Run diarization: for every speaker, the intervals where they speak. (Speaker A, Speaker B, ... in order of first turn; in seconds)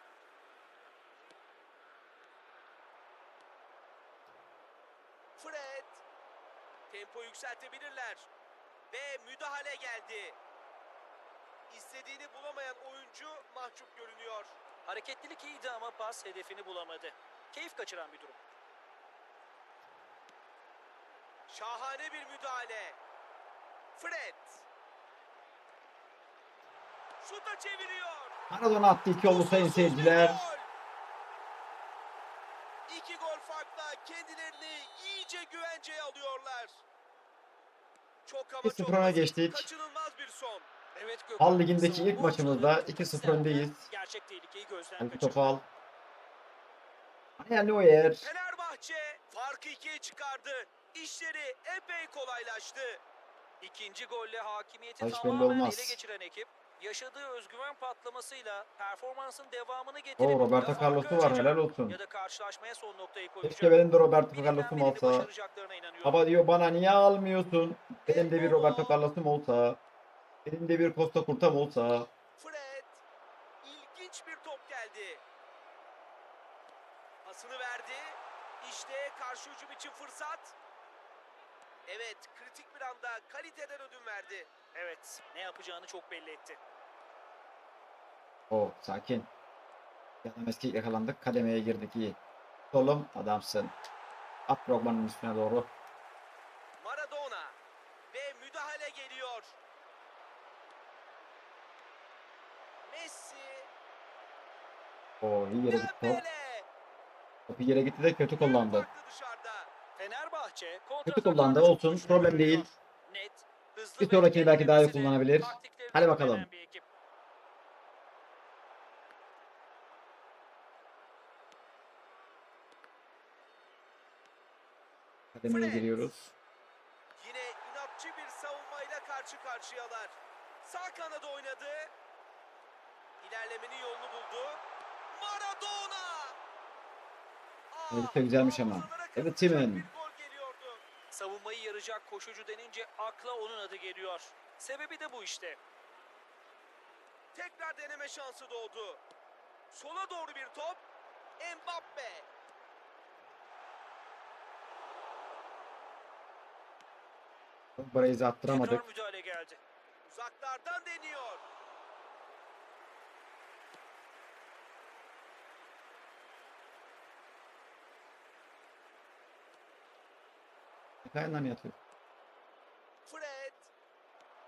Speaker A: 5.4-6.0, 6.9-8.3, 8.9-10.4, 11.7-14.5, 21.5-23.0, 23.9-24.6, 27.2-28.3, 29.2-30.7, 32.9-36.8, 38.2-40.7, 48.2-53.0, 68.0-69.0, 72.3-73.0, 73.6-75.2, 77.2-80.5, 81.9-84.5, 96.8-97.6, 98.1-99.5, 102.8-103.7, 105.7-106.7, 108.3-109.7, 125.4-126.0, 127.2-131.9, 133.2-136.4, 137.7-140.8, 147.3-149.0, 149.7-150.8, 151.4-152.3, 160.1-161.4, 173.0-173.7
Speaker B: 14.8-18.4, 41.0-45.4, 53.6-66.2, 84.7-86.6, 110.0-116.8, 141.1-145.6, 158.5-159.6
Speaker C: 28.5-30.4, 38.6-39.7, 41.4-43.9, 45.0-45.6, 47.4-48.3, 55.0-56.0, 60.2-62.0, 63.4-65.3, 66.0-69.8, 70.4-72.1, 88.5-89.3, 90.2-92.2, 92.7-93.7, 94.5-95.7, 105.2-106.2, 107.5-108.9, 111.0-112.7, 114.0-116.5, 125.3-126.3, 137.9-139.9, 157.8-158.8, 171.0-171.8